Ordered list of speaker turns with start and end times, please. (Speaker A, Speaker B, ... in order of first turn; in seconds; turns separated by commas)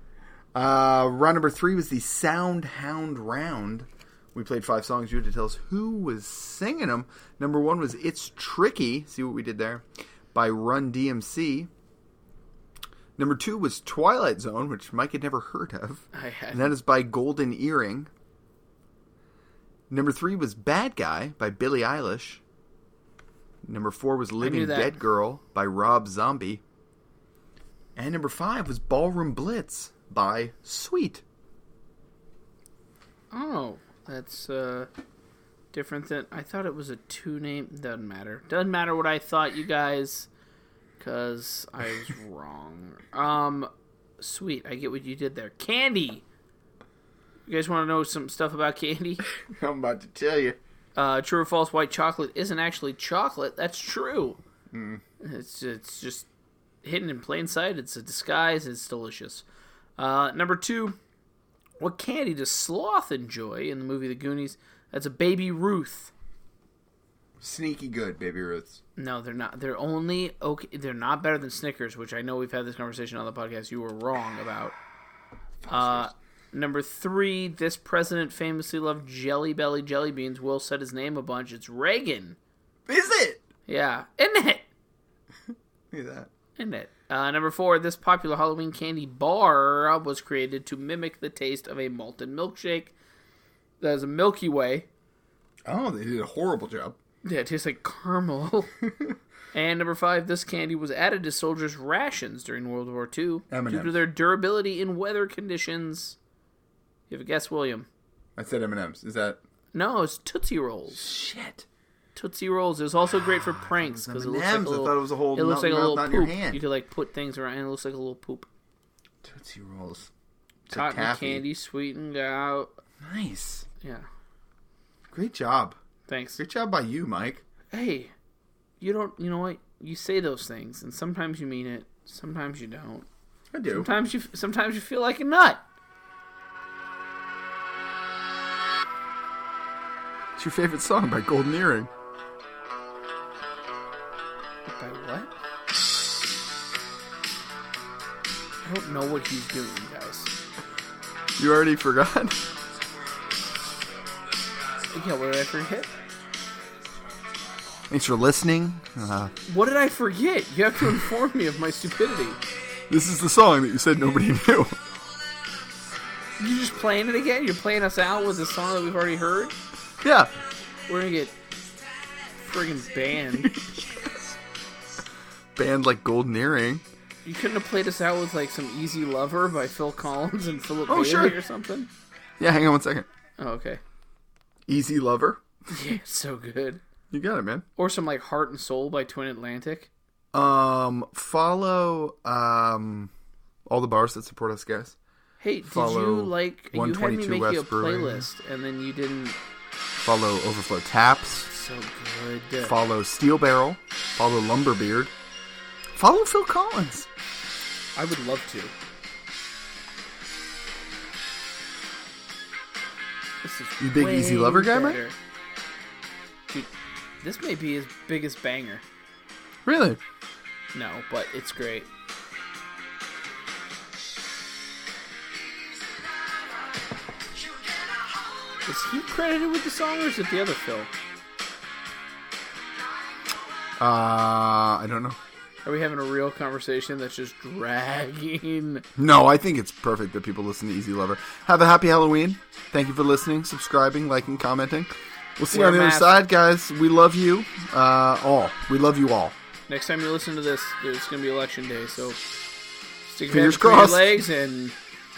Speaker A: 0.5-11.7, Speaker A: 13.2-18.1, Speaker B: 16.1-16.7, Speaker A: 19.9-22.4, Speaker A: 23.6-26.6, Speaker B: 24.4-25.0, Speaker A: 27.9-31.2, Speaker B: 33.3-34.9, Speaker B: 35.7-40.3, Speaker B: 41.0-46.2, Speaker B: 47.5-49.2, Speaker A: 49.5-50.6, Speaker B: 50.9-54.4, Speaker A: 54.7-55.0, Speaker B: 55.2-56.3, Speaker B: 56.8-59.4, Speaker B: 60.0-61.0, Speaker B: 61.8-66.1, Speaker A: 67.4-68.8, Speaker B: 69.0-74.8, Speaker A: 75.6-76.1, Speaker B: 75.7-82.4, Speaker A: 82.9-83.4, Speaker B: 83.7-84.7, Speaker A: 85.9-86.3, Speaker B: 86.5-92.9, Speaker B: 93.8-94.9, Speaker A: 95.7-97.0, Speaker B: 97.2-98.7, Speaker A: 98.8-99.2, Speaker B: 99.5-106.2, Speaker A: 103.5-104.0, Speaker B: 107.1-107.9, Speaker A: 108.4-109.4, Speaker B: 109.7-111.0, Speaker A: 110.9-111.6, Speaker B: 112.1-118.5, Speaker A: 113.8-116.6, Speaker A: 119.2-120.1, Speaker A: 120.7-121.4, Speaker B: 120.7-122.7, Speaker A: 123.0-123.7, Speaker B: 123.8-124.0, Speaker A: 125.1-125.8, Speaker B: 126.1-126.4, Speaker A: 126.4-127.4, Speaker B: 127.7-128.1, Speaker B: 128.8-133.1, Speaker A: 133.5-133.9, Speaker B: 133.7-135.6, Speaker A: 140.4-141.9, Speaker B: 144.6-145.3, Speaker B: 148.6-150.3, Speaker A: 151.4-152.4, Speaker B: 154.9-155.9, Speaker A: 157.9-159.3, Speaker B: 159.4-162.4, Speaker A: 162.9-164.8, Speaker B: 166.4-169.6, Speaker A: 170.0-170.3, Speaker B: 170.9-171.3, Speaker B: 172.4-173.6, Speaker A: 173.3-174.3, Speaker A: 175.6-176.8, Speaker B: 177.2-181.9, Speaker A: 180.9-181.4, Speaker A: 182.4-183.1, Speaker B: 183.4-183.8, Speaker A: 184.7-185.4, Speaker B: 185.7-186.8, Speaker A: 187.1-187.6, Speaker B: 187.8-189.9, Speaker A: 190.3-193.1, Speaker A: 193.7-194.9, Speaker B: 195.4-199.4, Speaker A: 195.6-198.3, Speaker A: 200.0-201.5, Speaker B: 201.4-202.7, Speaker A: 202.6-205.1, Speaker A: 205.9-207.1, Speaker B: 207.9-208.7, Speaker B: 213.4-215.2, Speaker A: 213.8-215.0, Speaker B: 216.5-218.8, Speaker A: 219.6-220.0, Speaker B: 220.7-221.9, Speaker B: 228.7-230.9, Speaker A: 233.8-235.2, Speaker B: 235.6-238.8, Speaker A: 238.9-249.3, Speaker B: 245.5-246.1, Speaker B: 249.7-252.2, Speaker B: 253.1-254.8, Speaker A: 253.3-254.2